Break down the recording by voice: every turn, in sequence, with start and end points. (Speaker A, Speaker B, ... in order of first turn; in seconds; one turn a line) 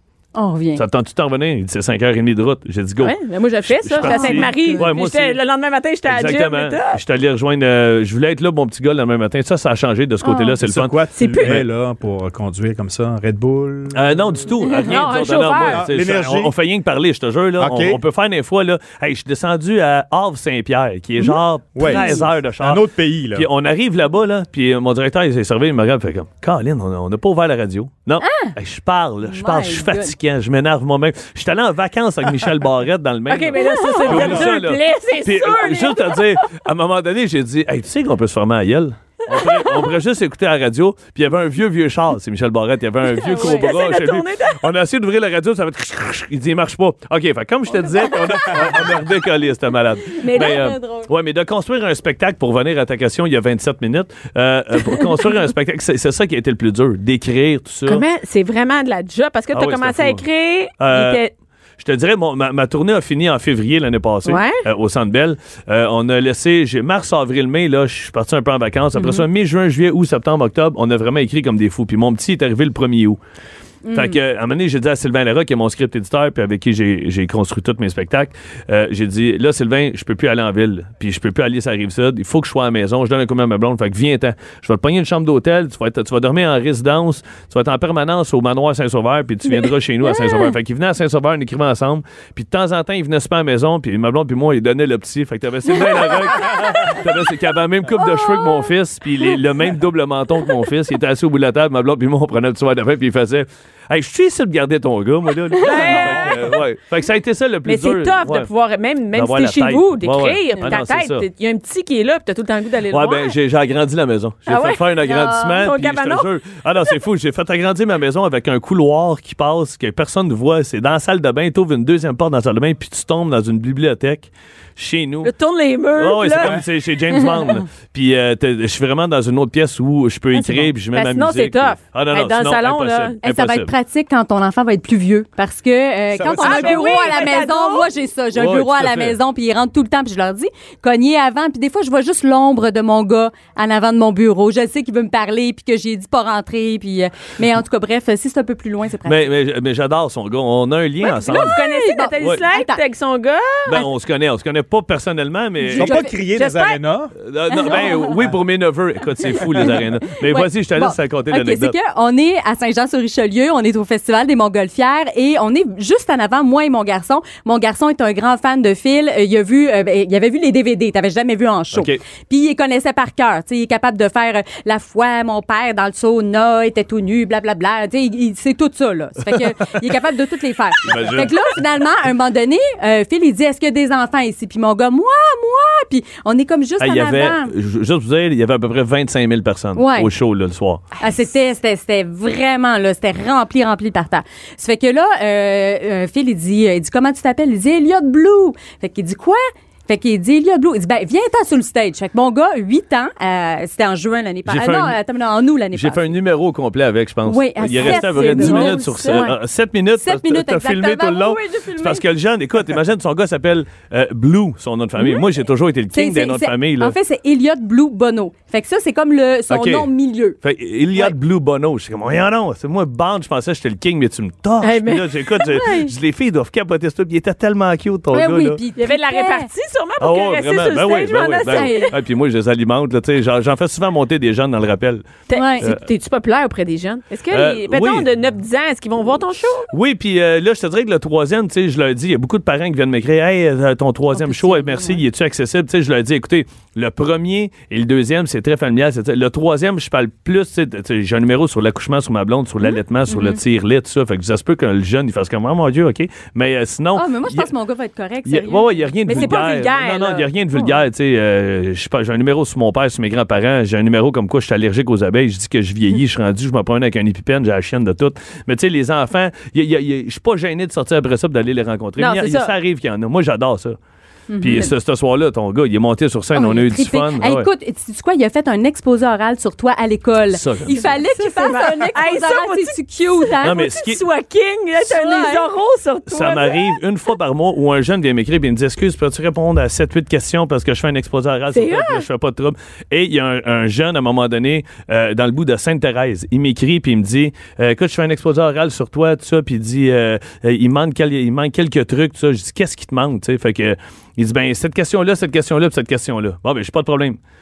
Speaker A: 0.3-0.8
Speaker B: 0.8-5.4
Speaker C: 3.0-7.0
Speaker A: 4.0-4.8
Speaker B: 6.1-11.6
Speaker A: 10.2-10.6
Speaker D: 10.6-14.5
Speaker C: 11.2-11.6
Speaker B: 13.9-58.0
Speaker C: 14.8-15.9
Speaker D: 15.7-16.5
Speaker D: 17.6-18.0
Speaker A: 21.2-22.2
Speaker D: 21.8-23.5
Speaker A: 28.2-28.6
Speaker A: 29.2-30.1
Speaker C: 33.3-36.5
Speaker A: 33.7-34.3
Speaker C: 39.4-39.6
Speaker C: 43.1-44.7
Speaker A: 43.3-43.6
Speaker A: 47.9-48.7
Speaker C: 50.2-51.0
Speaker A: 50.3-51.0
Speaker C: 57.9-61.3
Speaker B: 59.5-60.2
Speaker B: 60.8-61.2
Speaker B: 61.8-73.2
Speaker C: 64.2-64.6
Speaker A: 69.0-69.2
Speaker A: 73.9-74.2
Speaker B: 73.9-108.5
Speaker A: 90.2-90.4
Speaker A: 98.0-98.6
Speaker C: 105.6-106.5
Speaker A: 105.7-106.1
Speaker C: 107.7-113.4
Speaker B: 109.1-111.3
Speaker B: 112.9-125.3
Speaker C: 114.5-116.3
Speaker A: 115.0-115.4
Speaker C: 125.2-126.6
Speaker B: 126.0-133.7
Speaker A: 127.2-127.5
Speaker C: 130.4-133.2
Speaker A: 133.2-149.3
Speaker D: 136.1-137.0
Speaker C: 136.3-137.9
Speaker B: 138.3-139.2
Speaker B: 149.0-151.6
Speaker C: 151.0-153.9
Speaker A: 151.3-152.8
Speaker B: 153.7-156.0
Speaker A: 155.6-156.1
Speaker D: 155.7-157.1
Speaker C: 155.9-156.8
Speaker B: 157.2-161.8
Speaker A: 157.5-158.2
Speaker A: 159.2-187.5
Speaker B: 171.7-172.0
Speaker B: 180.8-181.4
Speaker B: 186.8-190.8
Speaker A: 189.8-190.1
Speaker A: 191.0-206.2
Speaker B: 204.5-205.0
Speaker B: 205.7-217.0
Speaker A: 207.2-209.4
Speaker C: 207.6-209.3
Speaker A: 209.9-212.1
Speaker A: 215.0-215.3
Speaker A: 215.9-220.4
Speaker B: 219.5-219.9
Speaker B: 220.4-228.6
Speaker C: 224.6-225.4
Speaker A: 225.4-225.9
Speaker A: 228.1-229.5
Speaker C: 228.8-231.9
Speaker B: 230.0-235.8
Speaker A: 231.4-232.0
Speaker C: 235.3-239.7
Speaker A: 235.3-235.7
Speaker B: 237.3-238.1
Speaker B: 239.7-257.5
Speaker A: 244.1-245.0
Speaker A: 252.6-253.4
Speaker A: 256.9-259.4
Speaker B: 258.2-273.8
Speaker C: 259.1-260.3
Speaker A: 260.5-260.8
Speaker C: 272.0-272.5
Speaker A: 274.3-274.7
Speaker B: 274.4-277.5
Speaker A: 276.4-283.7
Speaker B: 280.3-281.0
Speaker C: 280.7-286.8
Speaker B: 283.4-284.0
Speaker A: 284.8-285.5
Speaker B: 286.1-307.2
Speaker C: 291.5-292.0